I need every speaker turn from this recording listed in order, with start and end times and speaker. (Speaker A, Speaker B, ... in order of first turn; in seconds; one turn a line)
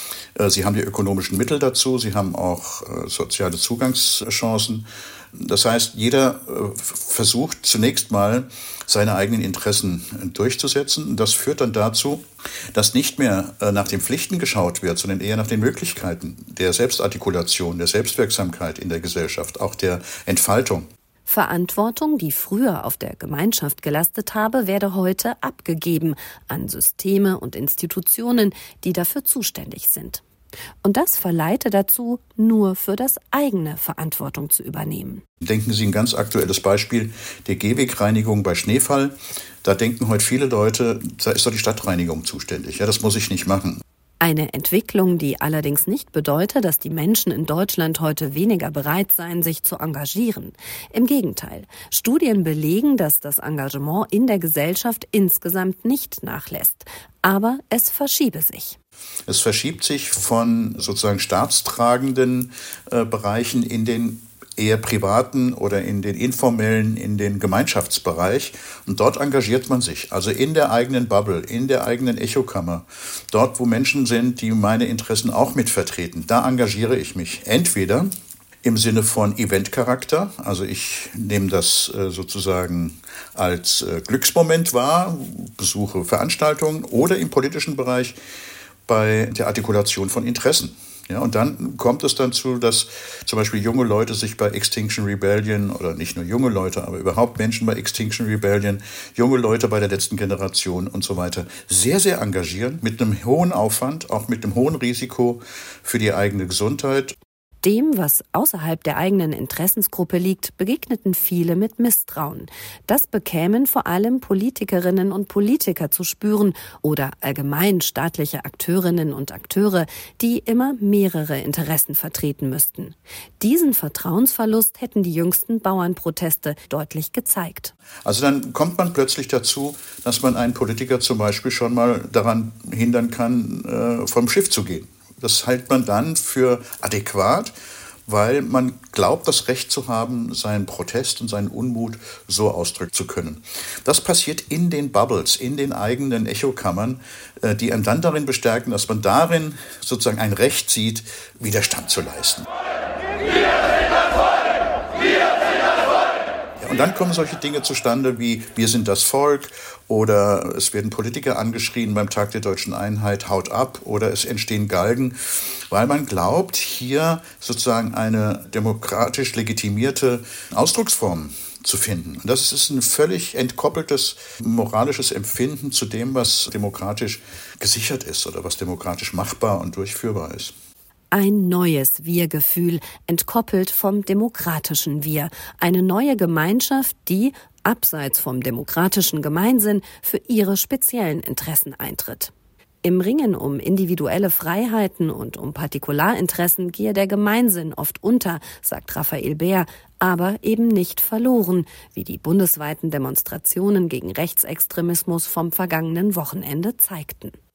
Speaker A: 0.3-20.9
Speaker B: 21.2-30.2
Speaker B: 30.8-35.2
Speaker A: 35.4-43.8
Speaker B: 44.2-58.8
Speaker A: 59.3-78.1
Speaker A: 78.6-88.2
Speaker A: 88.8-107.2
Speaker B: 107.6-127.7
Speaker A: 128.0-137.5
Speaker A: 138.1-152.5
Speaker A: 156.6-180.5
Speaker B: 181.1-192.3
Speaker B: 192.8-207.4